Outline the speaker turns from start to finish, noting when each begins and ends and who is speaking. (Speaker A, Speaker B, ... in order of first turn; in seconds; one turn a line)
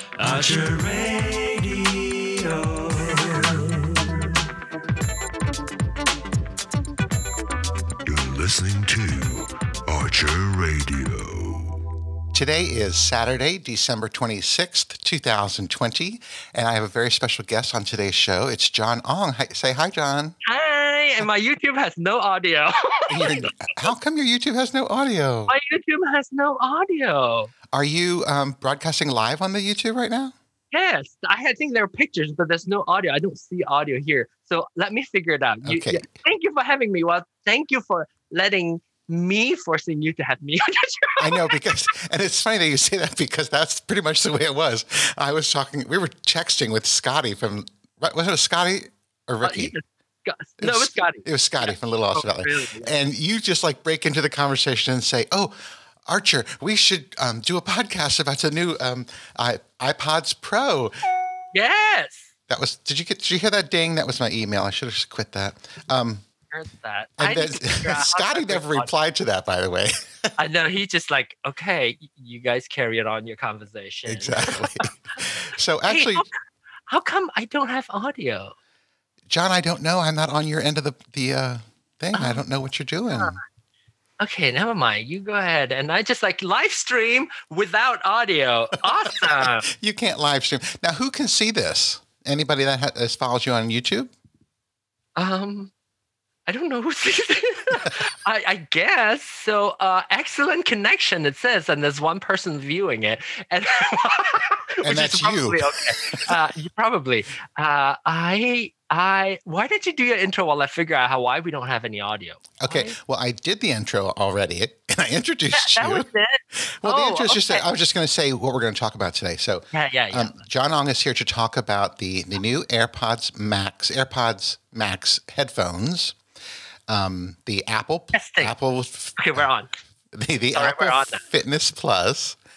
Speaker A: 0.2-4.3
Speaker A: 8.0-11.8
Speaker B: 12.3-20.3
Speaker C: 20.4-23.7
Speaker B: 23.1-25.5
Speaker C: 25.5-27.5
Speaker B: 27.7-30.3
Speaker C: 30.7-41.6
Speaker B: 35.7-36.0
Speaker B: 41.2-49.7
Speaker C: 49.4-52.9
Speaker B: 50.6-60.9
Speaker C: 61.5-62.3
Speaker B: 62.5-66.2
Speaker C: 66.5-68.9
Speaker B: 67.2-70.3
Speaker C: 70.4-74.9
Speaker B: 74.1-76.2
Speaker C: 75.8-76.3
Speaker C: 76.9-78.5
Speaker B: 79.3-83.4
Speaker C: 82.1-82.4
Speaker C: 83.1-83.4
Speaker C: 84.2-89.7
Speaker B: 88.9-94.1
Speaker C: 95.2-95.7
Speaker C: 96.5-113.0
Speaker B: 104.8-106.4
Speaker B: 112.6-126.2
Speaker C: 115.5-117.7
Speaker C: 119.7-120.4
Speaker B: 126.9-129.5
Speaker C: 128.1-128.6
Speaker C: 129.2-129.7
Speaker B: 130.1-132.4
Speaker C: 130.6-131.2